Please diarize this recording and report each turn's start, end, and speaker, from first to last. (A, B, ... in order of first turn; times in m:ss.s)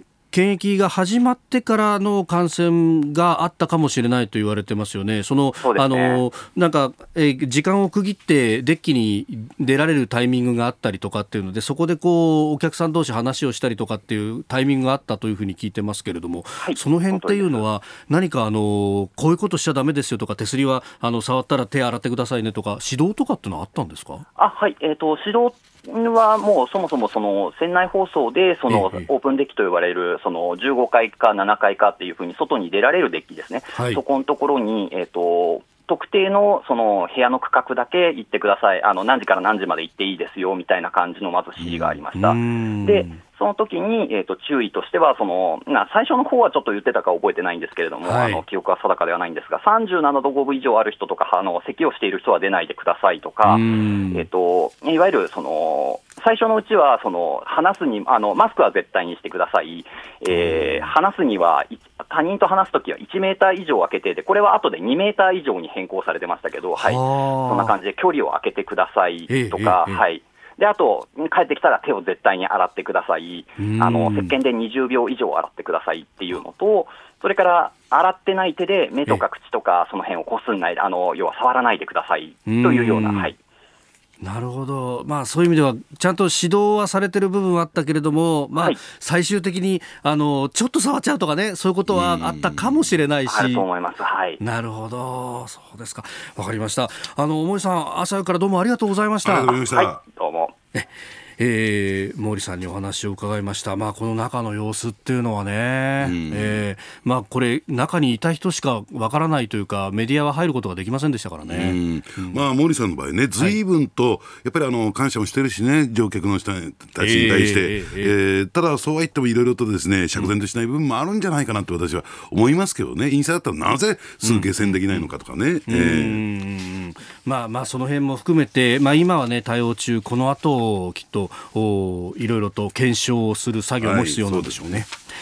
0:00.3-0:24.2 A
0:05.6-0:06.2 B
0:16.6-0:17.6 B
0:24.4-1:23.4 B
0:28.7-0:29.1 A
0:33.7-0:34.0 A
0:41.6-0:42.0 C
0:42.1-0:43.2 A
0:48.0-0:48.4 A
0:53.4-0:54.2 A
1:00.5-1:00.8 A
1:06.8-1:07.7 A
1:09.3-1:10.0 A
1:13.6-1:14.3 A
1:22.5-1:23.3 A
1:24.2-1:33.6 A
1:31.9-1:32.8 C
1:33.3-1:34.4 B
1:34.4-1:39.6 A
1:39.2-1:40.0 C
1:39.5-1:40.5 B
1:40.7-1:52.4 A
1:46.0-1:46.6 C
1:51.4-2:06.2 C
1:57.0-1:58.1 A
2:04.2-2:05.0 A
2:05.7-2:14.9 A
2:13.8-2:14.8 C